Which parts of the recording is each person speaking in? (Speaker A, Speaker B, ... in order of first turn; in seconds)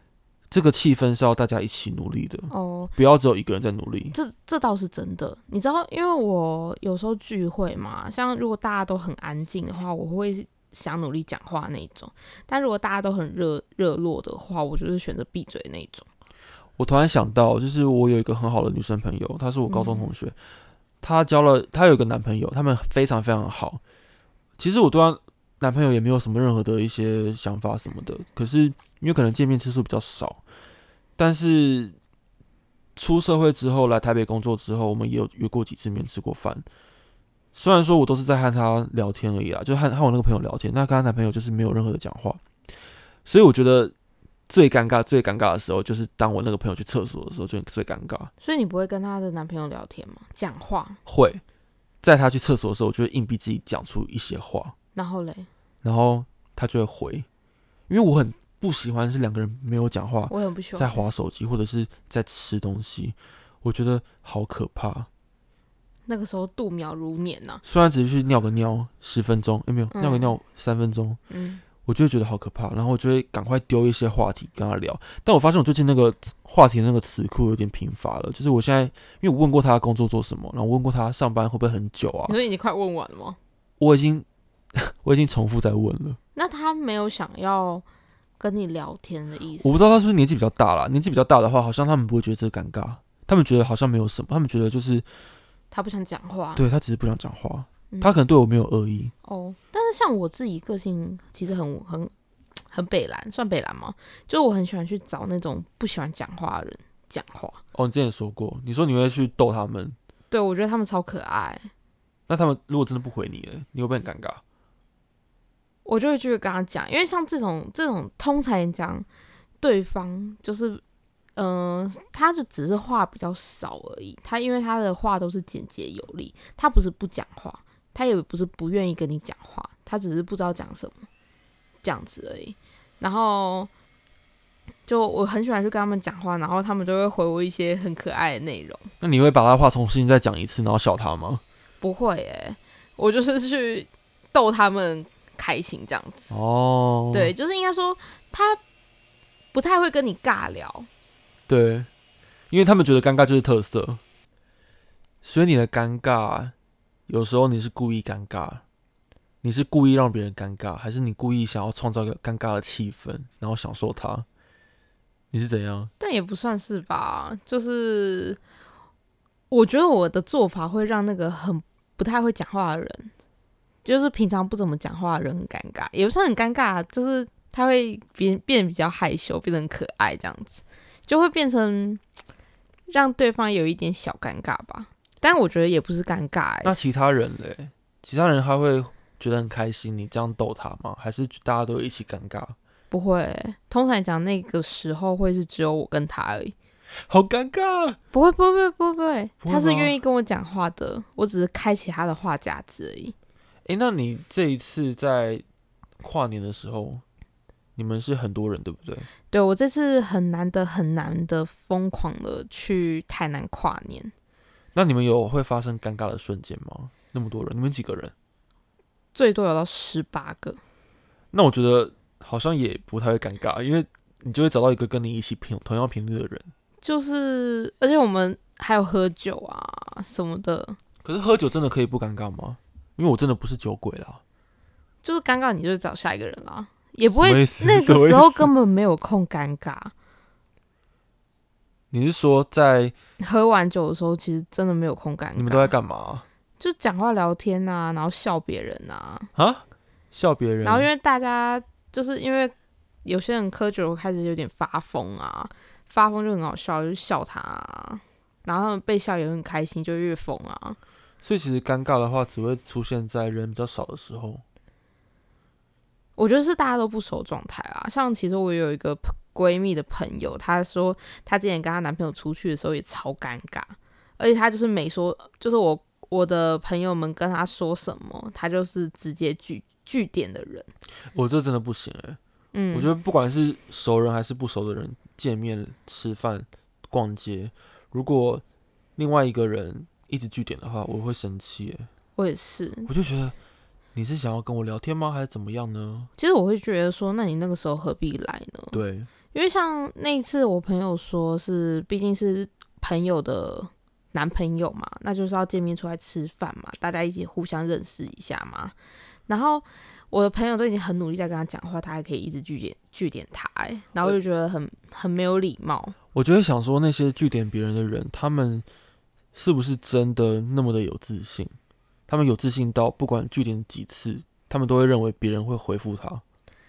Speaker A: 0.5-4.2, 16.8-20.4, 21.0-23.8, 24.6-30.4, 31.2-32.0, 33.0-36.7, 37.5-42.4, 43.2-43.9, 44.5-48.3, 51.1-51.4, 52.0-54.8, 55.8-57.3, 57.9-65.1, 67.6-71.2, 71.8-82.4, 83.8-86.2, 89.6-95.1, 96.6-99.1, 107.7-110.0, 112.3-114.4, 139.0-141.4, 146.3-147.3, 151.5-151.9, 152.5-154.0, 155.2-156.5, 157.1-158.6, 159.4-164.3, 165.3-165.9, 186.6-192.6, 197.1-198.0, 199.4-199.9, 203.7-205.4, 206.0-207.0, 207.8-209.1, 214.8-218.1, 221.3-226.5, 231.0-234.2, 237.2-238.5, 241.9-242.9, 245.4-246.2, 249.3-250.9, 261.2-264.4, 281.1-282.2, 282.7-288.4, 289.0-291.9, 292.9-293.4, 293.9-296.1, 298.7-299.1, 316.1-318.6, 319.3-321.6, 322.1-326.2
Speaker B: 2.5-2.9, 4.1-16.1, 19.7-20.1, 48.4-51.0, 55.0-55.5, 60.3-61.0, 66.1-67.6, 69.9-70.4, 71.3-71.6, 82.3-83.4, 86.3-87.8, 88.4-89.7, 95.7-96.6, 99.2-102.1, 102.7-107.6, 110.3-111.7, 115.8-119.1, 119.6-120.8, 121.4-131.1, 131.8-133.7, 134.9-138.9, 141.8-146.4, 147.1-148.6, 149.5-150.9, 166.0-168.4, 169.5-173.1, 173.8-182.0, 182.9-186.9, 192.9-196.5, 198.1-203.1, 209.3-214.1, 219.1-220.6, 226.8-230.8, 235.0-239.9, 243.2-245.7, 246.6-249.3, 250.6-252.5, 253.1-260.8, 266.2-280.7, 282.5-282.9, 292.2-292.9, 296.2-298.8, 299.3-308.8, 309.3-316.0